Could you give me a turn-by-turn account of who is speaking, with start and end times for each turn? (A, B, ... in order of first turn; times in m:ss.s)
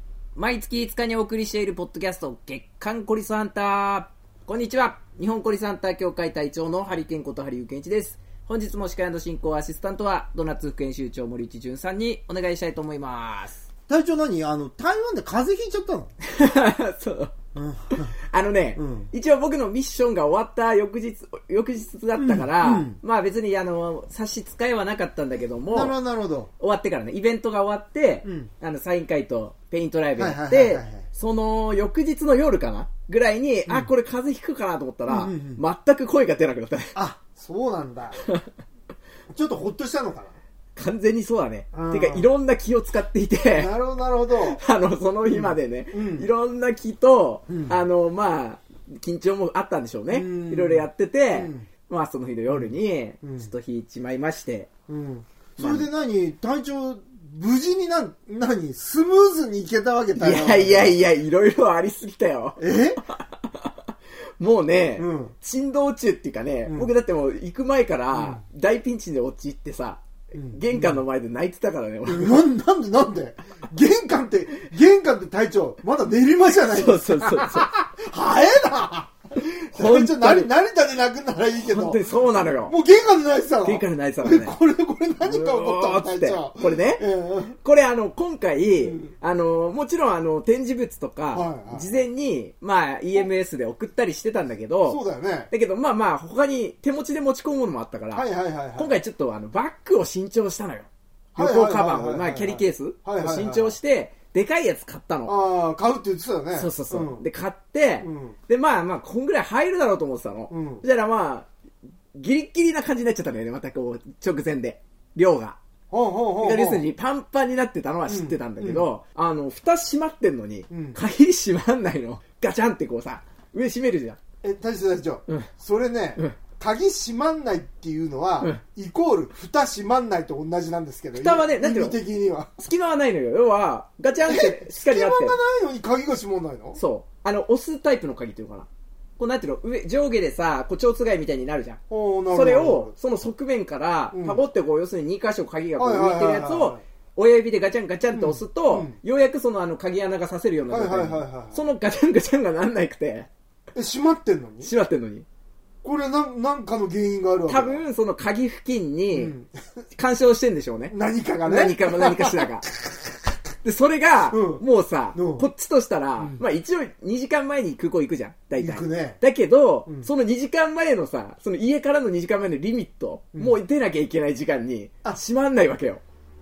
0:00.3-0:13.6 A
0:13.9-0:16.1 B
0:16.2-0:17.3 A
0:17.6-0:18.1 B
0:17.9-0:26.0 A
0:18.8-0:19.1 B
0:22.2-0:23.0 B
0:25.7-0:26.5 B
0:26.6-0:37.0 A
0:28.2-0:28.5 B
0:30.2-0:31.0 B
0:33.7-0:33.9 B
0:35.1-0:35.6 B
0:37.0-0:38.2 B
0:39.3-0:40.3 B
0:40.8-0:43.7 A
0:41.7-0:42.3 B
0:43.5-0:44.6 B
0:44.4-0:54.7 A
0:45.3-0:46.3 B
0:47.5-0:47.8 B
0:50.1-0:51.7 B
0:52.5-0:53.5 B
0:54.9-1:01.0 B
0:55.6-0:55.9 A
1:00.2-1:03.7 A
1:02.6-1:03.0 B
1:04.4-1:12.4 A
1:05.0-1:05.3 B
1:06.6-1:06.9 B
1:08.1-1:08.4 B
1:10.3-1:11.0 B
1:12.1-1:27.6 B
1:16.7-1:17.7 A
1:19.8-1:20.5 A
1:21.6-1:22.8 A
1:23.6-1:24.6 A
1:25.2-1:27.0 A
1:27.6-1:45.4 A
1:28.8-1:29.1 B
1:31.3-1:32.0 B
1:34.9-1:35.5 B
1:38.1-1:38.9 B
1:41.3-1:43.8 B
1:45.2-1:47.2 B
1:46.5-1:51.5 A
1:48.0-1:48.4 B
1:50.5-1:50.8 B
1:52.1-1:55.6 A
1:55.9-1:56.9 B
1:56.4-2:04.2 A
1:58.1-1:58.8 B
2:00.7-2:01.0 B
2:04.4-2:12.6 B
2:11.1-2:12.0 A
2:12.6-2:15.4 A
2:14.2-2:16.8 B
2:16.8-2:21.8 A
2:21.9-2:22.9 B
2:22.3-2:33.3 A
2:24.1-2:24.4 B
2:25.8-2:26.8 B
2:28.1-2:29.0 B
2:30.7-2:31.6 B
2:33.7-2:34.7 B
2:34.6-2:35.2 A
2:35.8-2:37.8 B
2:37.5-2:39.3 A
2:39.1-2:39.5 B
2:39.9-2:42.7 A
2:40.9-2:43.2 B
2:43.6-2:56.0 A
2:44.3-2:44.6 B
2:45.1-2:45.5 B
2:46.2-2:46.4 B
2:48.6-2:49.2 B